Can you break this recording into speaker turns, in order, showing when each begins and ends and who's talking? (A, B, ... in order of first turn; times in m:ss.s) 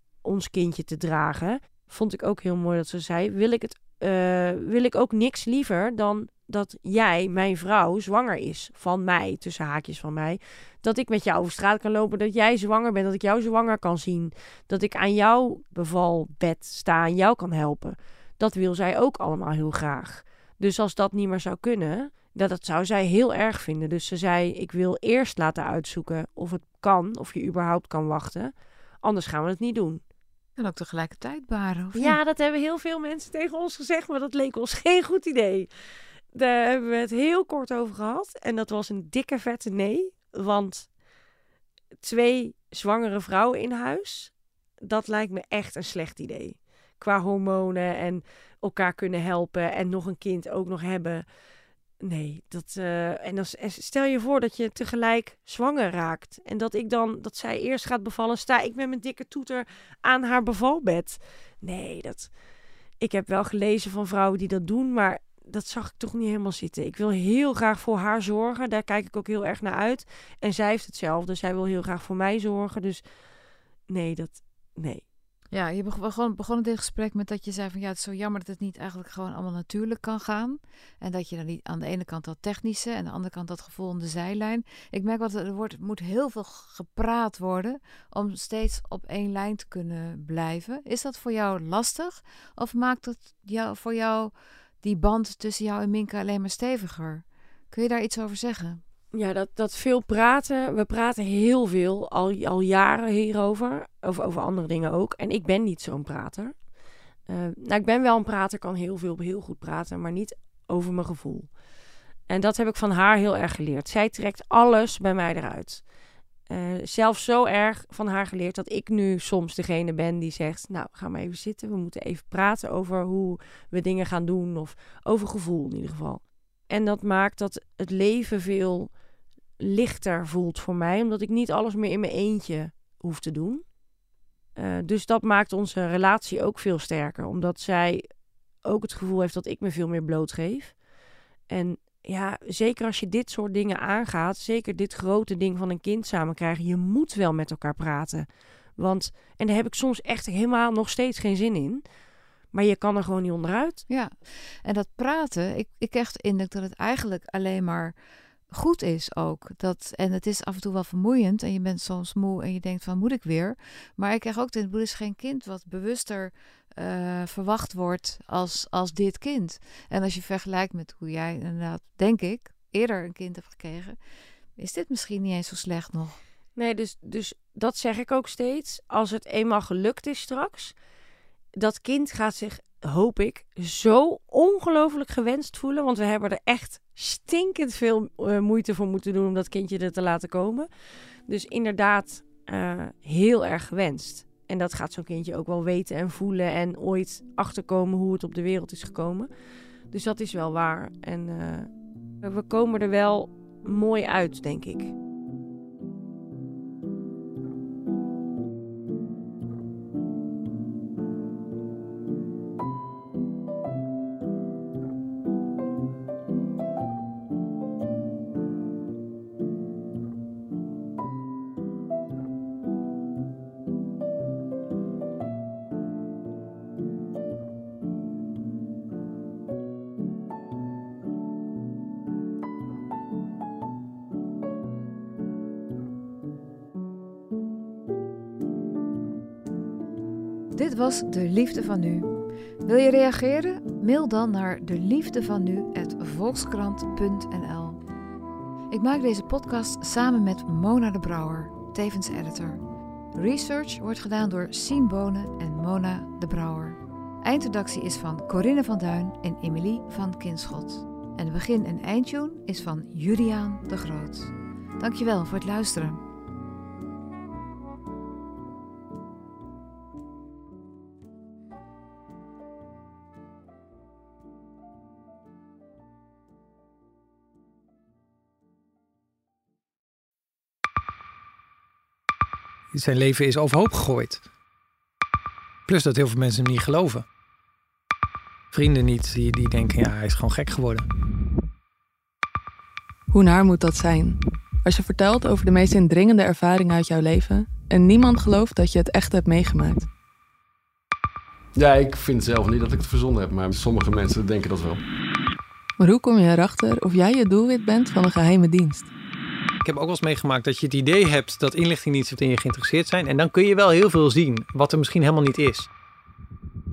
0:00.2-0:30.0 A
0:30.6-0:32.2 B
0:31.9-0:35.7 A
0:36.3-0:40.9 A
0:42.0-0:51.2 A
0:52.0-1:02.3 A
1:03.0-1:13.0 A
1:13.9-1:15.0 A
1:15.5-1:38.8 B
1:39.1-1:46.6 A
1:47.3-1:51.5 A
1:52.3-1:55.8 A
1:56.5-2:08.9 A
2:09.6-2:13.6 A
2:14.6-2:18.0 A
2:18.6-2:20.8 A
2:21.5-2:28.3 A
2:28.8-2:31.8 A
2:32.5-2:33.8 A
2:33.9-2:38.0 B
2:38.5-2:54.0 B
2:54.6-2:56.2 B
2:56.6-3:00.8 A
3:01.6-3:10.7 A
3:11.3-3:19.3 A
3:19.9-3:21.7 A
3:22.2-3:24.9 A
4:00.6-4:02.1 B
4:02.6-4:07.8 B
4:08.7-4:12.6 B
4:13.2-4:26.0 B
4:42.7-4:44.2 C
4:45.7-4:47.0 C
4:48.5-4:50.9 C
4:53.1-4:59.9 D
5:01.6-5:04.8 E
5:05.8-5:08.9 D
5:09.6-5:15.7 C